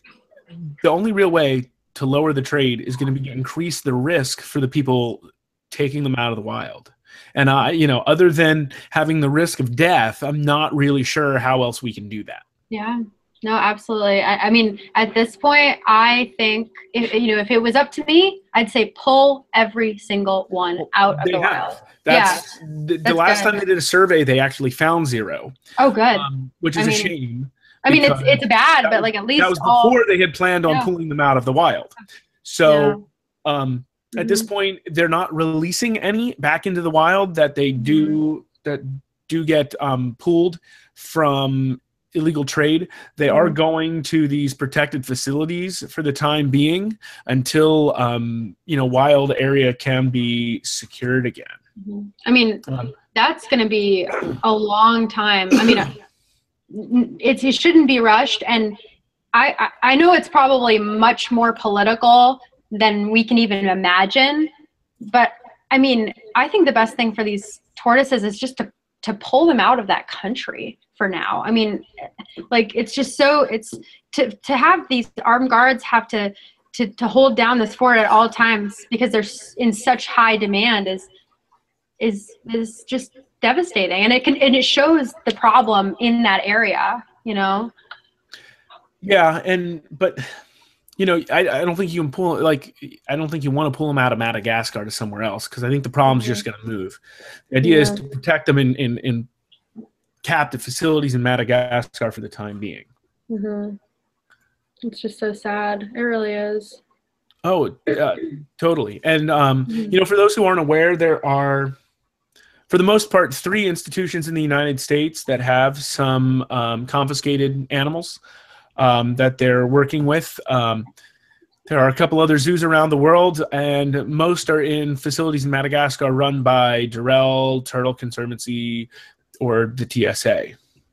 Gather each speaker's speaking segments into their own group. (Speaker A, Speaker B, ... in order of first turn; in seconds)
Speaker A: 0.8-12.4, 20.8-25.6, 26.1-51.6, 89.0-90.2, 91.0-97.0, 97.5-99.3, 100.2-102.9, 107.4-111.8, 112.7-118.2, 118.8-120.9, 121.7-128.9, 129.4-130.6
Speaker B: 12.7-22.5, 23.0-23.6, 25.8-27.1, 27.9-30.0, 32.7-33.0, 34.2-34.5, 37.8-38.2, 43.3-43.6, 51.8-56.0, 56.7-58.8, 59.3-64.5, 65.0-71.8, 72.5-81.1, 82.0-87.7, 96.1-96.4, 97.6-98.0, 103.3-103.8, 104.8-106.8, 109.7-110.0